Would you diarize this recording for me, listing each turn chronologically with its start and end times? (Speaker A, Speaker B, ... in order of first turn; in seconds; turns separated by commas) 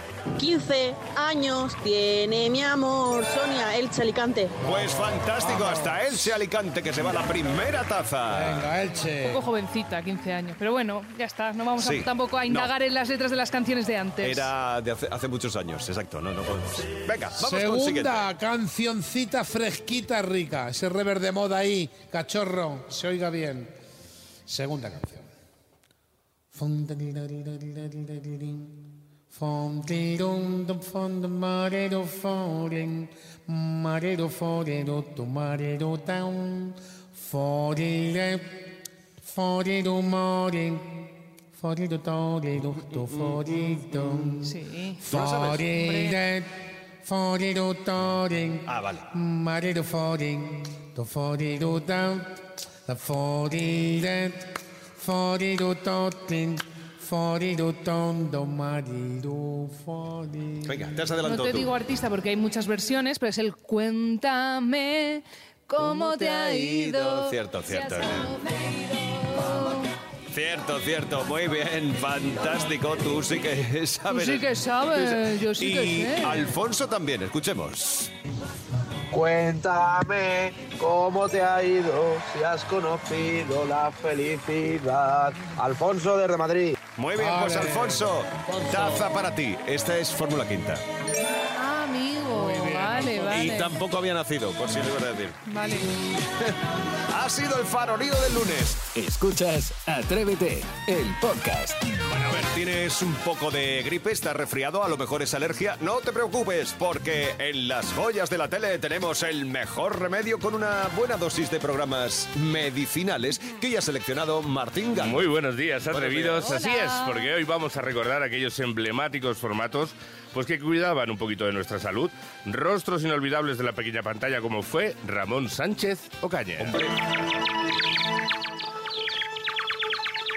Speaker A: 0.4-4.6, Speaker B: 4.6-8.7, Speaker C: 4.7-6.1, Speaker C: 8.3-9.4, Speaker D: 9.2-14.5, Speaker B: 11.8-12.7, Speaker B: 14.2-18.3, Speaker C: 17.4-23.7, Speaker C: 24.5-25.3, Speaker C: 26.5-28.8, Speaker C: 29.3-38.6, Speaker C: 39.2-46.5, Speaker D: 44.4-45.0, Speaker B: 45.1-45.7, Speaker D: 45.7-46.2, Speaker C: 47.0-60.9, Speaker B: 48.6-49.1, Speaker B: 60.6-61.7, Speaker D: 61.2-68.4, Speaker B: 65.8-68.3, Speaker D: 69.4-69.8, Speaker B: 70.3-78.1, Speaker D: 74.1-76.5, Speaker E: 79.1-86.7, Speaker B: 87.0-90.8, Speaker C: 87.2-89.0, Speaker D: 91.5-93.7, Speaker C: 92.3-93.5, Speaker B: 93.3-95.4, Speaker D: 95.4-95.9, Speaker B: 97.1-98.8, Speaker F: 98.9-101.8, Speaker B: 102.1-115.3, Speaker G: 115.0-126.8, Speaker B: 115.9-116.6, Speaker D: 116.4-117.3, Speaker B: 126.6-126.9